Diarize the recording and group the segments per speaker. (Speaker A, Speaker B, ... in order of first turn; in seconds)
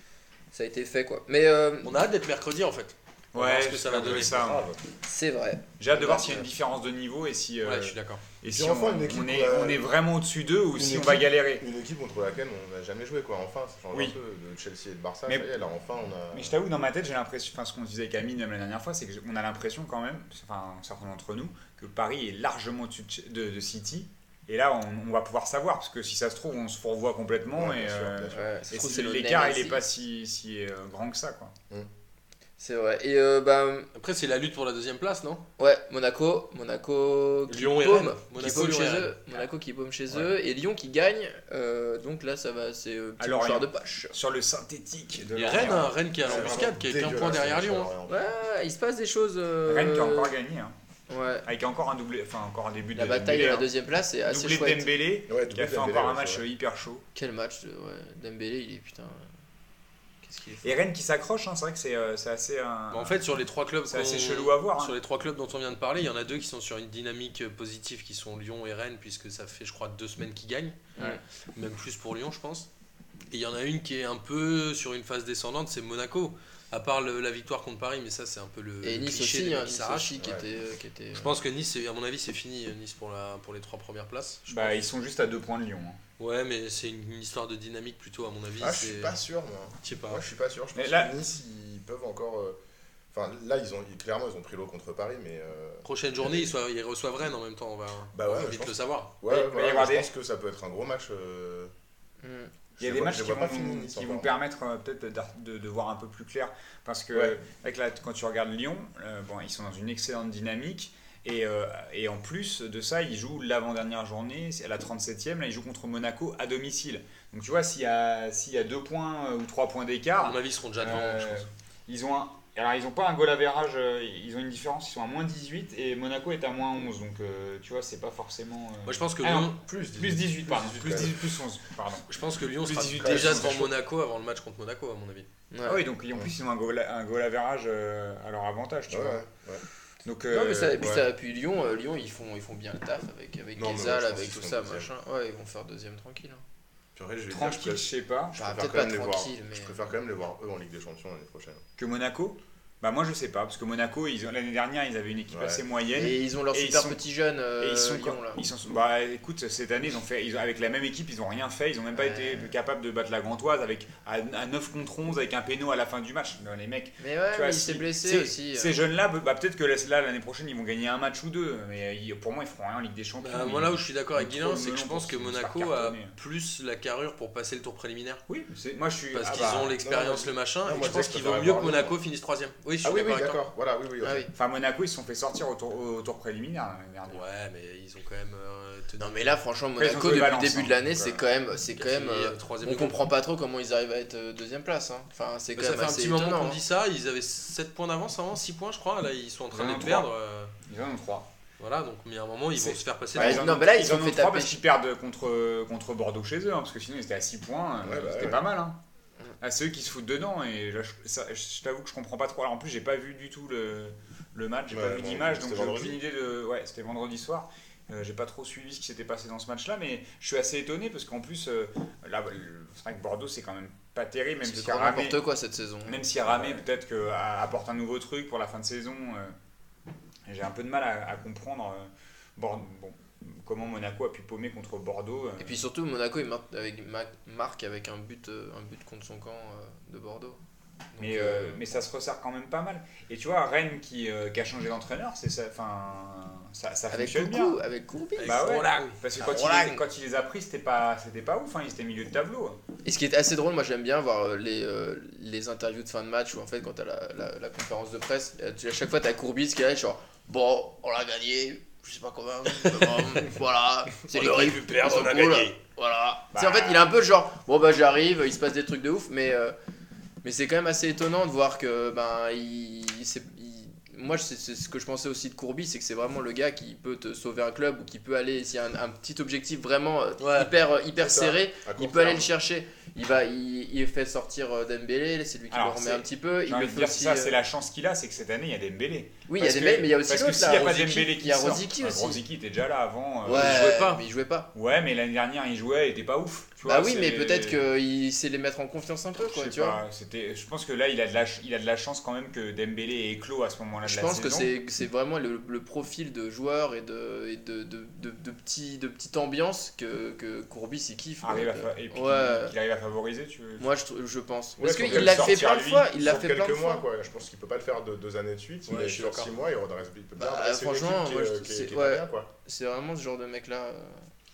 Speaker A: 0.5-1.9, 5.0-6.5, 28.3-29.8, 32.6-33.9, 35.6-44.1, 48.1-50.3, 51.1-51.5, 52.9-54.9, 57.1-59.3, 60.2-60.8, 71.0-71.2, 78.8-81.3, 102.2-102.5, 135.5-135.8, 140.3-146.4, 148.4-149.7, 155.9-158.4, 161.9-162.5, 167.0-168.8, 184.0-184.3, 189.0-196.6, 203.2-204.6, 224.4-226.1, 235.4-240.4, 240.9-241.6, 246.9-248.5, 249.2-249.8, 252.8-269.6, 270.2-287.4, 289.3-292.2, 293.2-294.5, 296.7-299.8, 303.8-312.6, 313.6-316.9, 320.2-324.0
Speaker B: 1.8-4.5, 7.6-8.2, 34.0-35.4, 37.5-39.4, 45.4-47.9, 62.9-72.7, 73.3-80.2, 81.1-84.8, 86.2-89.2, 89.8-90.3, 95.8-99.1, 120.2-121.5, 128.9-129.6, 132.1-135.3, 173.2-178.2, 179.1-183.4, 187.1-189.3, 191.8-193.1, 195.6-200.5, 201.6-203.5, 248.2-249.0, 264.1-265.6, 280.2-280.5, 293.3-294.0, 318.7-319.3
Speaker C: 3.3-4.7, 5.8-11.7, 16.3-31.5, 43.2-46.0, 49.7-50.8, 51.5-53.7, 54.3-57.0, 60.6-63.2, 63.9-65.0, 84.5-86.0, 90.8-91.1, 99.3-100.1, 102.8-132.1, 132.6-133.7, 135.7-139.2, 140.1-140.8, 147.3-148.4, 151.8-157.0, 157.6-176.2, 178.3-179.8, 184.3-187.2, 189.8-191.2, 199.5-200.1, 200.6-201.3, 202.6-208.8, 209.4-225.2, 225.9-229.3, 230.3-235.6, 241.0-247.6, 248.2-252.6, 266.3-266.9, 285.5-293.9, 294.5-297.6, 299.3-304.5, 311.2-313.7, 314.7-316.0
Speaker D: 3.9-4.8, 8.5-9.9, 10.8-16.6, 27.6-28.5, 45.4-48.2, 55.3-56.4, 80.2-80.5, 88.6-92.6, 93.1-96.5, 98.1-101.7, 102.8-104.3, 129.6-131.2, 133.0-133.7, 138.9-139.6, 140.8-141.1, 143.6-144.9, 146.9-151.6, 155.3-155.6, 179.8-182.0, 182.8-184.3, 207.8-208.4, 214.7-216.0, 281.0-282.3, 314.6-322.3